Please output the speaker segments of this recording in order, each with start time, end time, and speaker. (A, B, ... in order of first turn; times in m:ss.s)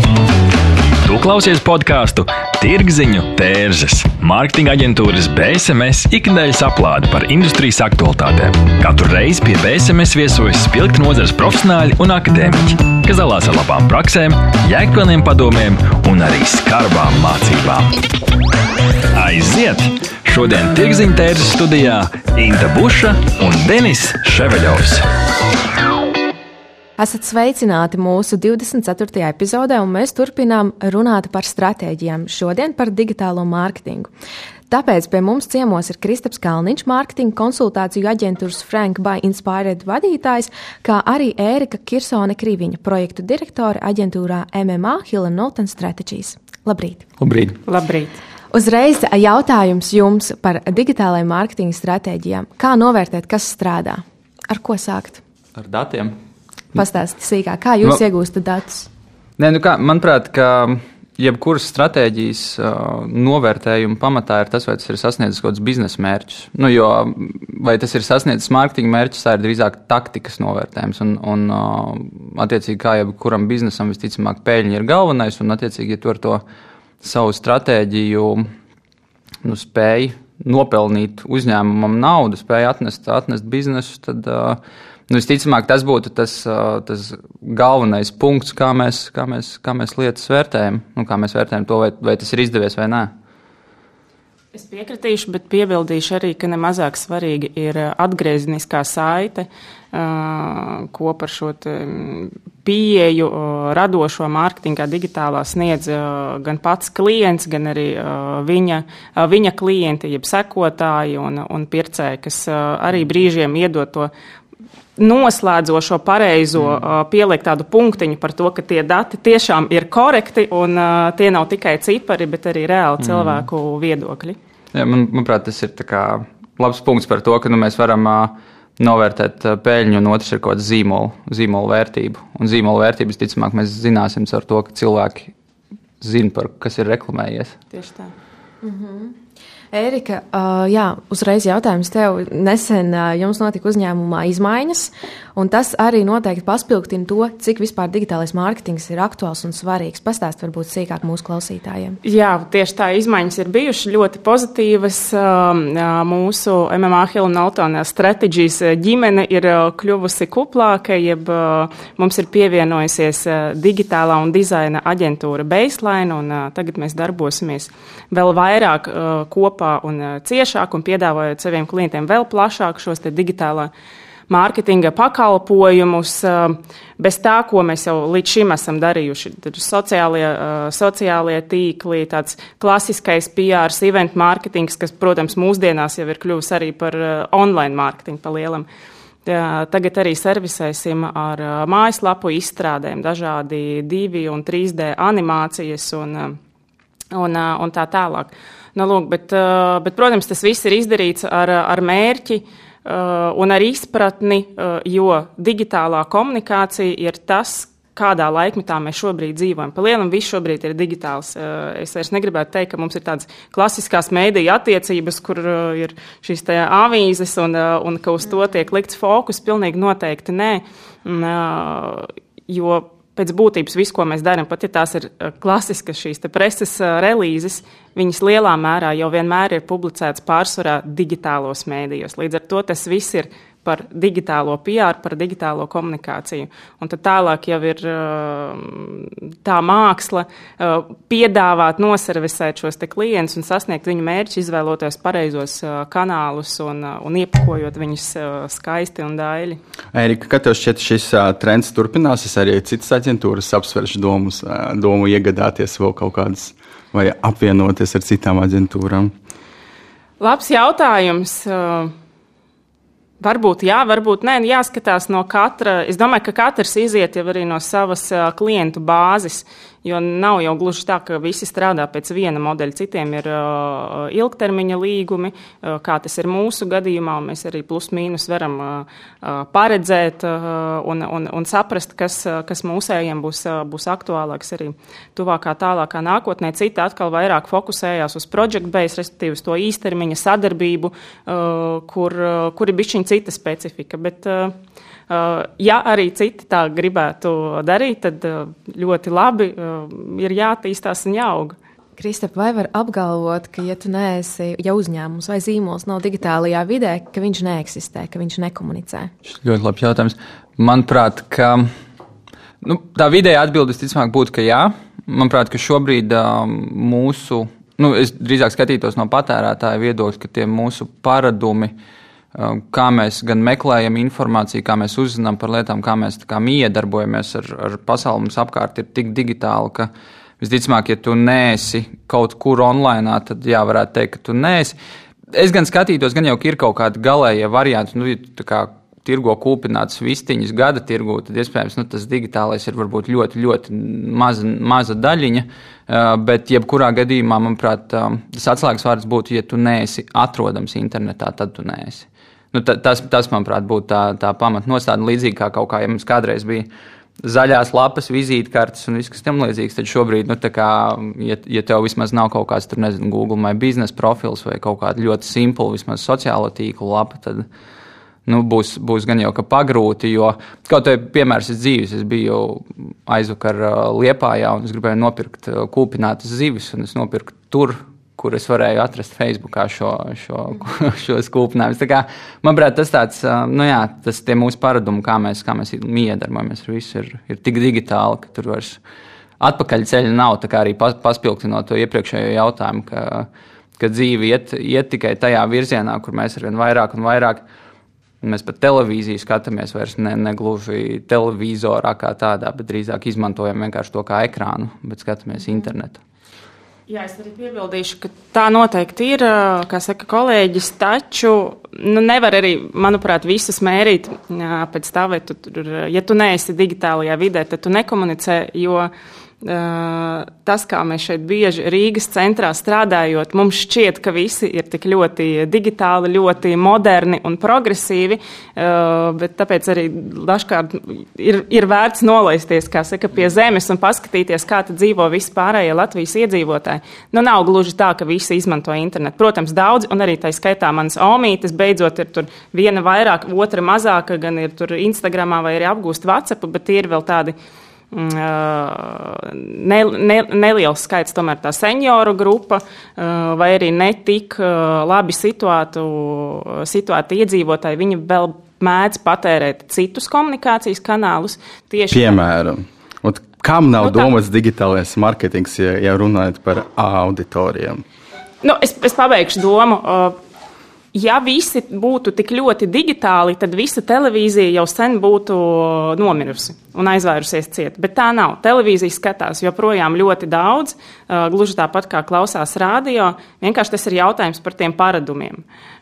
0:01.0-0:18.0 A
0:19.1-0:25.0 A
0:27.0-0:34.1 B
0:34.7-0:47.0 B
0:47.2-0:47.6 C
0:47.6-0:48.2 D
0:48.5-0:55.2 B
0:55.6-0:56.2 C
0:56.7-0:58.9 B
0:59.4-1:16.4 C
1:17.0-1:18.5 C
1:19.4-1:33.1 C
1:34.5-1:54.1 D
1:55.0-2:04.4 D
2:03.0-2:03.5 C
2:04.7-2:15.3 C
2:16.0-2:17.6 C
2:17.7-2:18.1 D
2:18.6-2:19.1 B
2:19.7-2:32.0 B
2:32.0-2:53.7 D
2:54.3-3:08.6 D
3:09.2-3:16.4 D
3:17.1-4:09.6 D
4:09.9-4:19.1 E
4:20.2-4:21.9 D
4:23.2-4:54.5 D
4:55.1-5:01.6 D
5:02.0-5:09.1 B
5:09.2-5:11.7 C
5:12.6-5:21.7 C
5:22.3-5:29.9 C
5:30.4-5:34.7 C
5:35.3-5:56.7 C
5:57.2-6:07.4 C
6:08.2-6:28.8 C
6:29.4-6:33.3 C
6:33.8-6:37.4 C
6:38.2-6:46.0 C
6:46.9-6:58.9 D
6:59.4-7:27.3 D
7:27.9-7:42.2 D
7:41.9-7:47.8 E
7:43.8-7:44.1 D
7:48.4-7:50.2 D
7:50.9-8:05.4 D